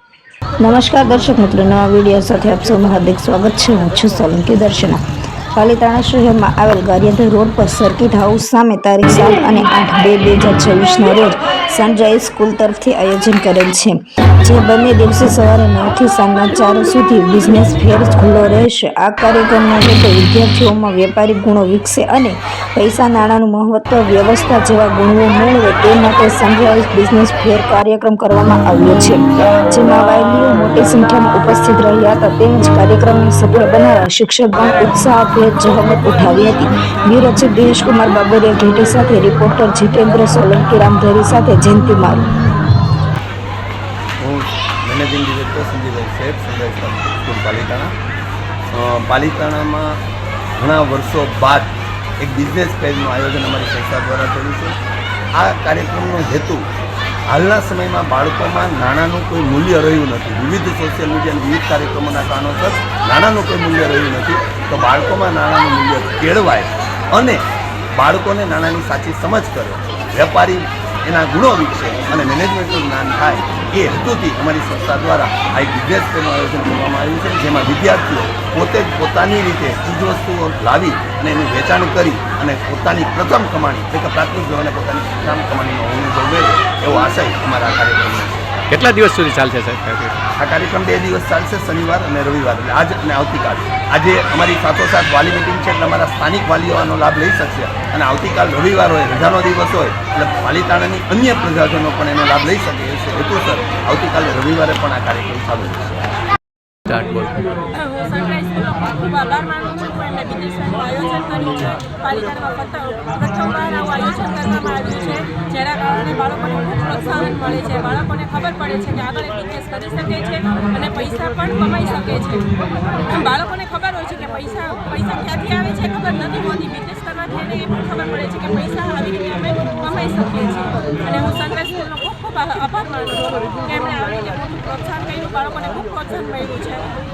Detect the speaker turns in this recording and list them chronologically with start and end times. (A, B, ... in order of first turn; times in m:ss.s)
0:00.6-0:05.0 A
0:05.5-0:42.3 A
0:44.2-0:47.9 B
0:48.7-0:50.0 B
0:50.6-0:54.8 B
0:55.4-0:56.6 B
0:57.3-1:07.4 B
1:08.0-1:28.6 B
1:28.7-1:30.2 C
1:30.4-1:46.1 B
1:46.9-1:47.3 C
1:53.7-1:55.0 D
1:56.3-2:00.3 D
2:00.8-2:02.2 D
2:03.3-2:09.3 D
2:09.9-2:10.3 D
2:11.4-2:12.7 D
2:13.7-2:14.3 D
2:15.0-2:15.6 D